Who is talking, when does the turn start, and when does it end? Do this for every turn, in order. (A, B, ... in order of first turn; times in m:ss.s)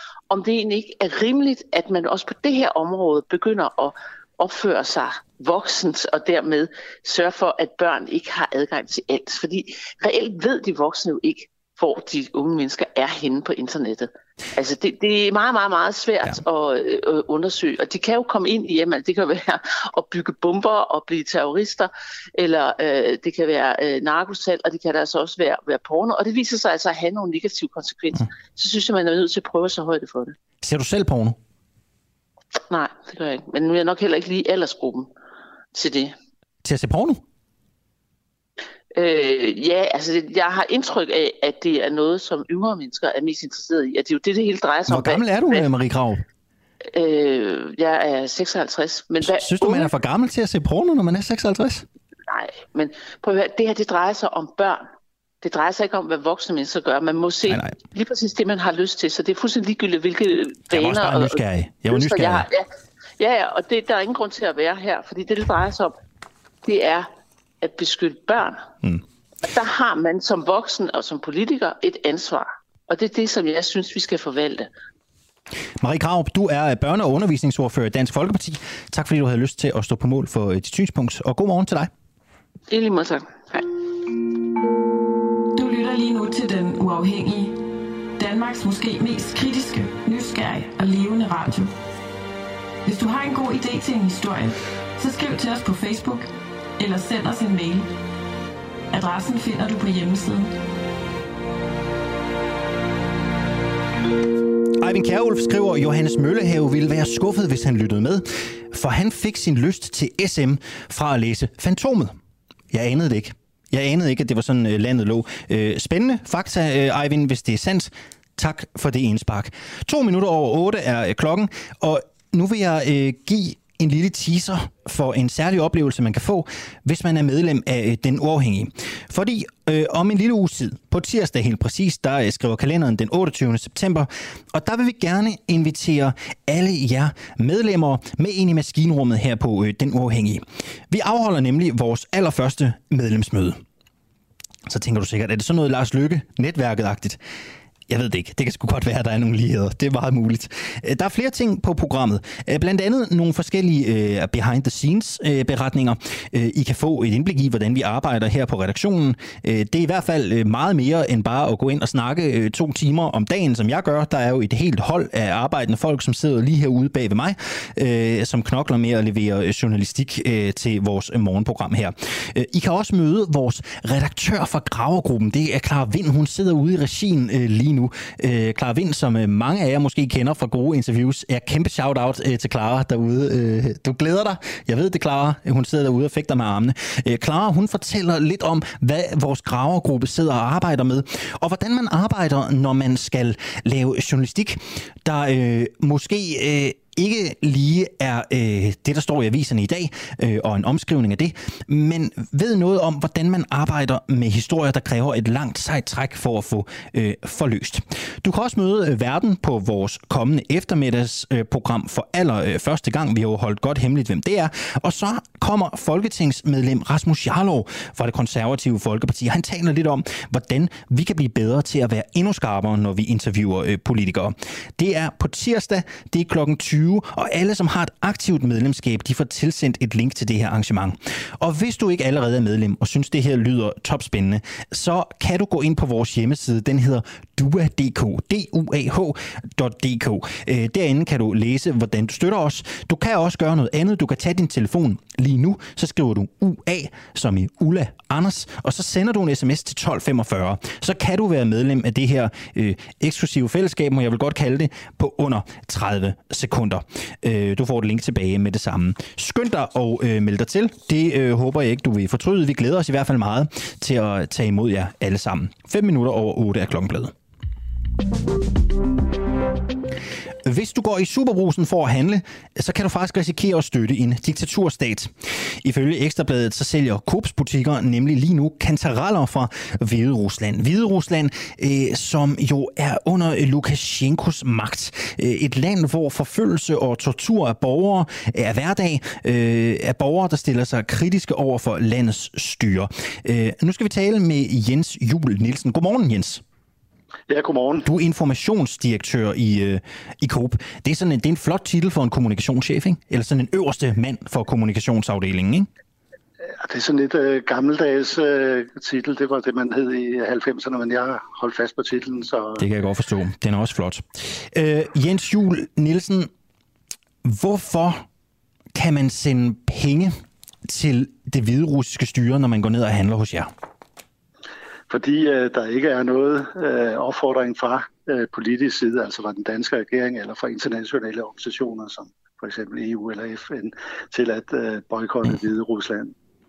0:00.3-0:30.3 A
0:30.6-0:31.4 B
0:32.7-0:35.1 A
0:35.7-0:36.1 A
0:36.6-0:37.2 B
0:38.9-0:45.6 A
0:44.9-0:46.2 B
0:46.9-0:49.9 A
0:49.2-0:51.8 B
0:52.3-0:54.8 A
0:55.4-1:02.7 A
0:57.5-0:57.8 B
1:00.7-1:02.5 B
1:03.2-1:05.9 A
1:06.6-1:07.1 A
1:07.6-1:08.6 A
1:09.4-1:14.7 A
1:15.8-1:21.9 B
1:22.7-1:23.7 A
1:25.5-1:27.6 C
1:28.2-1:31.7 C
1:32.8-1:36.2 C
1:36.8-1:37.9 C
1:38.9-1:40.5 C
1:44.8-1:52.2 B
1:52.7-2:23.6 B
2:24.6-2:27.2 B
2:27.9-4:27.1 B
4:30.4-4:56.4 B
4:57.3-4:57.8 D
4:57.8-5:05.7 B
5:06.6-5:12.6 D
5:12.6-5:16.3 B
5:17.2-5:18.0 B
5:18.7-5:23.5 B
5:24.9-5:36.1 D